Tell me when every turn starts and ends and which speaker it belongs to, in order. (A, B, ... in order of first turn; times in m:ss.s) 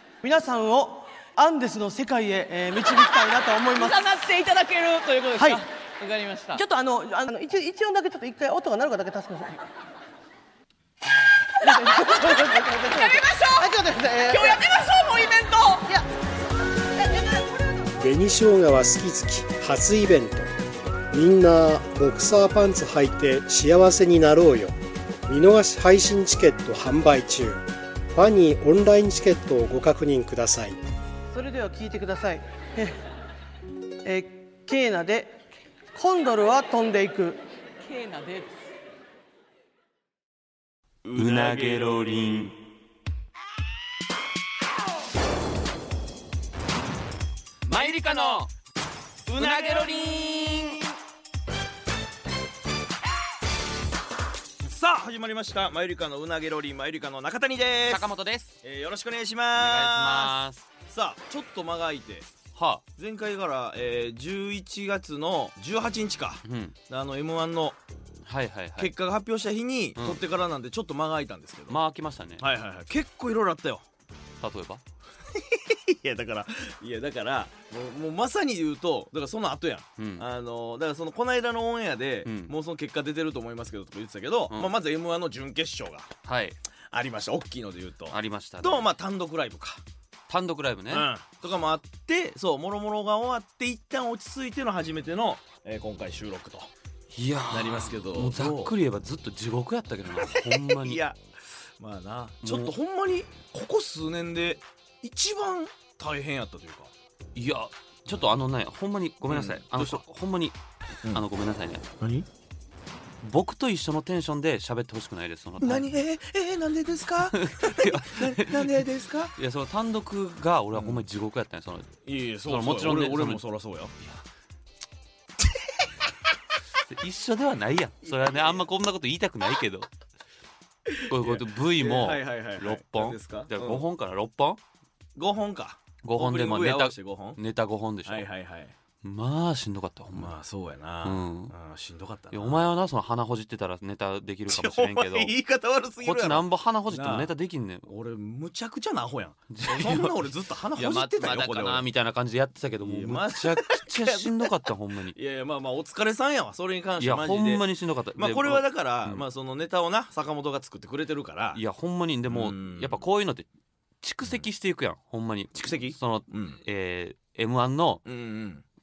0:00.2-0:04.1 A
0:03.6-0:06.6 B
0:05.4-0:05.6 A
0:06.5-0:09.6 A
0:11.6-0:13.7 B
0:11.6-0:14.7 A
0:14.3-0:15.9 B
0:17.0-0:17.3 A
0:18.0-0:20.5 C
0:21.1-0:24.7 C
0:25.3-0:30.8 C
0:31.3-0:33.0 A
0:34.0-0:35.3 A
0:35.9-0:37.4 A
0:37.8-0:38.6 B
0:41.0-0:42.0 D
0:41.1-0:42.6 E
0:47.6-0:48.5 E
0:49.3-0:50.1 D
0:49.3-0:50.8 E
0:54.6-0:58.1 D
0:57.9-0:58.5 E
0:58.6-1:02.3 D
0:59.5-1:00.6 E
1:02.5-1:02.8 E
1:03.0-1:07.8 D
1:06.4-1:06.7 E
1:08.2-1:08.9 E
1:08.8-1:11.8 D
1:11.7-1:12.5 E
1:12.4-1:13.8 D
1:14.4-1:14.8 E
1:15.3-1:26.1 D
1:20.0-1:20.2 E
1:22.2-1:22.5 E
1:26.2-1:26.6 E
1:26.9-1:29.8 D
1:28.1-1:28.9 E
1:30.3-1:31.1 E
1:30.9-1:36.7 D
1:37.1-1:41.0 E
1:37.5-1:38.7 D
1:40.2-1:41.2 D
1:41.8-1:46.9 D
1:42.4-1:42.7 E
1:47.3-1:50.6 E
1:49.3-1:50.0 D
1:51.1-1:51.8 E
1:52.0-1:52.3 D
1:53.2-1:55.9 E
1:55.6-1:59.3 D
1:57.3-2:01.9 E
2:00.7-2:01.0 D
2:02.0-2:03.9 D
2:02.4-2:03.4 E
2:06.9-2:09.9 E
2:08.0-2:08.7 D
2:10.8-2:13.8 D
2:11.1-2:14.6 E
2:15.2-2:17.4 D
2:16.0-2:18.3 E
2:18.0-2:18.7 D
2:19.0-2:20.3 E
2:20.1-2:22.7 D
2:21.0-2:21.5 E
2:22.3-2:25.3 E
2:24.5-2:27.3 D
2:26.0-2:27.9 E
2:27.9-2:31.9 D
2:29.5-2:35.2 E
2:32.8-2:34.5 D
2:35.1-2:41.6 D
2:37.0-2:39.2 E
2:41.5-2:43.5 E
2:42.3-2:43.0 D
2:44.0-2:48.0 E
2:45.6-2:46.6 D
2:48.0-2:48.6 D